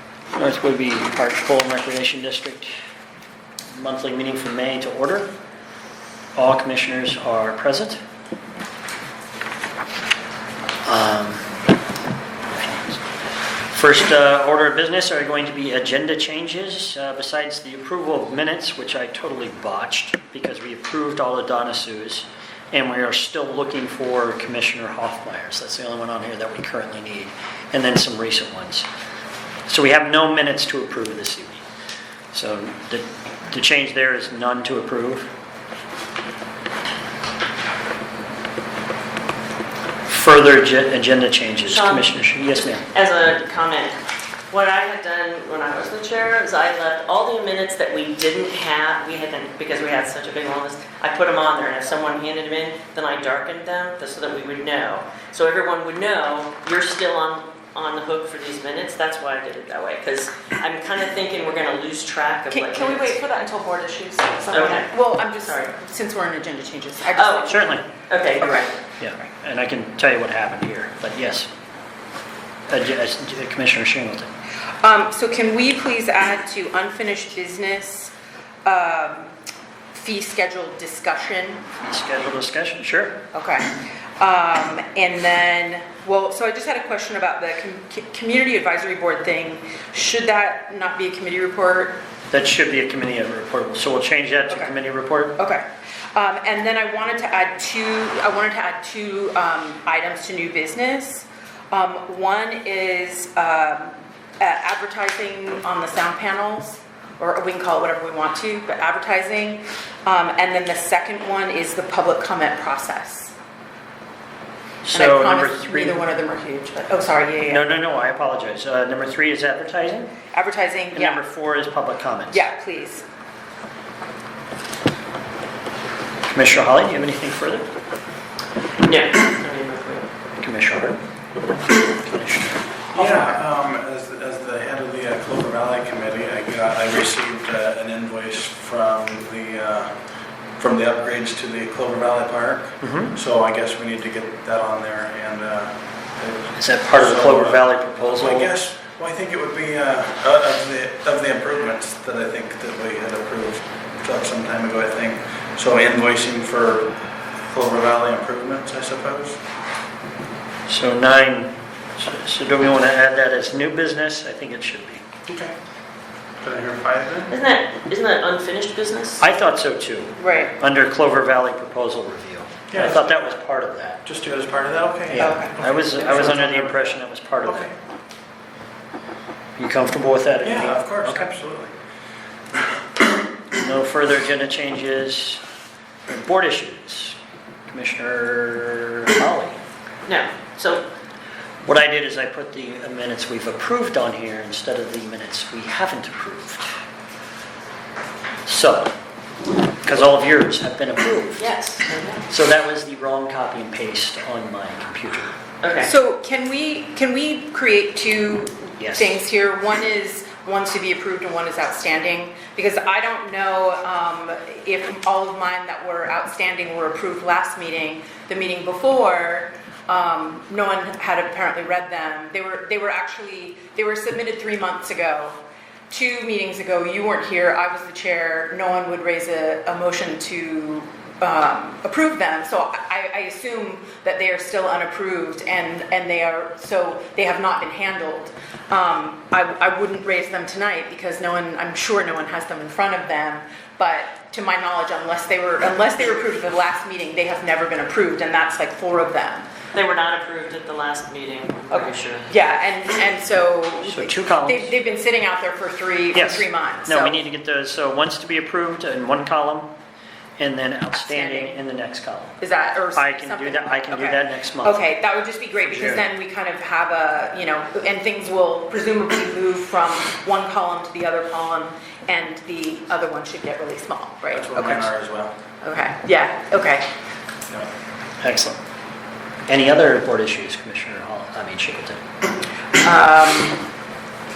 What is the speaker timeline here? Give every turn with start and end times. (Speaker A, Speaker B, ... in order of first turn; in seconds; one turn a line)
Speaker A: 0.3-2.7
Speaker A: 3.7-5.3
Speaker A: 6.4-8.0
Speaker A: 10.9-11.5
Speaker A: 12.5-13.0
Speaker A: 13.7-28.9
Speaker A: 29.7-31.6
Speaker A: 32.3-35.3
Speaker A: 40.1-42.9
Speaker B: 41.7-42.2
Speaker B: 42.7-44.0
Speaker B: 44.5-63.2
Speaker C: 62.5-67.6
Speaker B: 64.5-64.9
Speaker B: 65.4-65.7
Speaker B: 67.1-68.8
Speaker A: 67.5-67.8
Speaker C: 68.4-68.7
Speaker A: 69.0-71.5
Speaker A: 72.7-74.3
Speaker C: 74.8-78.1
Speaker C: 78.7-79.3
Speaker C: 79.9-81.6
Speaker A: 81.8-83.2
Speaker C: 83.3-92.0
Speaker A: 92.3-95.4
Speaker C: 95.3-113.3
Speaker A: 114.8-116.0
Speaker C: 114.9-117.7
Speaker A: 117.5-120.1
Speaker C: 120.3-121.2
Speaker A: 120.9-122.5
Speaker C: 122.3-123.0
Speaker A: 126.3-127.7
Speaker B: 128.8-130.1
Speaker A: 130.4-131.0
Speaker A: 132.0-132.7
Speaker D: 132.9-140.0
Speaker C: 133.0-133.4
Speaker D: 140.6-156.9
Speaker A: 142.8-143.2
Speaker A: 146.6-148.6
Speaker D: 157.5-159.4
Speaker A: 160.7-165.1
Speaker D: 165.3-165.5
Speaker D: 166.4-167.3
Speaker B: 167.3-169.2
Speaker A: 169.2-174.0
Speaker C: 170.2-170.6
Speaker D: 172.7-173.4
Speaker D: 174.1-177.7
Speaker A: 175.1-177.7
Speaker C: 175.2-175.5
Speaker A: 179.6-181.3
Speaker D: 180.4-181.7
Speaker A: 183.5-185.4
Speaker A: 186.1-187.2
Speaker A: 187.7-189.6
Speaker B: 190.1-190.8
Speaker A: 191.6-196.7
Speaker A: 198.5-198.9
Speaker A: 199.8-201.5
Speaker B: 201.4-202.2
Speaker A: 202.3-205.3
Speaker B: 205.6-205.9
Speaker C: 205.8-225.4
Speaker A: 208.8-209.2
Speaker C: 225.9-249.5
Speaker B: 249.7-252.3
Speaker C: 251.7-257.2
Speaker A: 253.8-254.7
Speaker A: 256.1-259.7
Speaker A: 260.4-262.4
Speaker C: 260.9-261.6
Speaker C: 262.4-274.6
Speaker A: 262.9-264.8
Speaker A: 265.6-266.0
Speaker D: 274.3-275.4
Speaker A: 274.6-274.9
Speaker C: 275.6-276.9
Speaker A: 278.2-278.6
Speaker A: 279.5-282.0
Speaker C: 282.8-283.6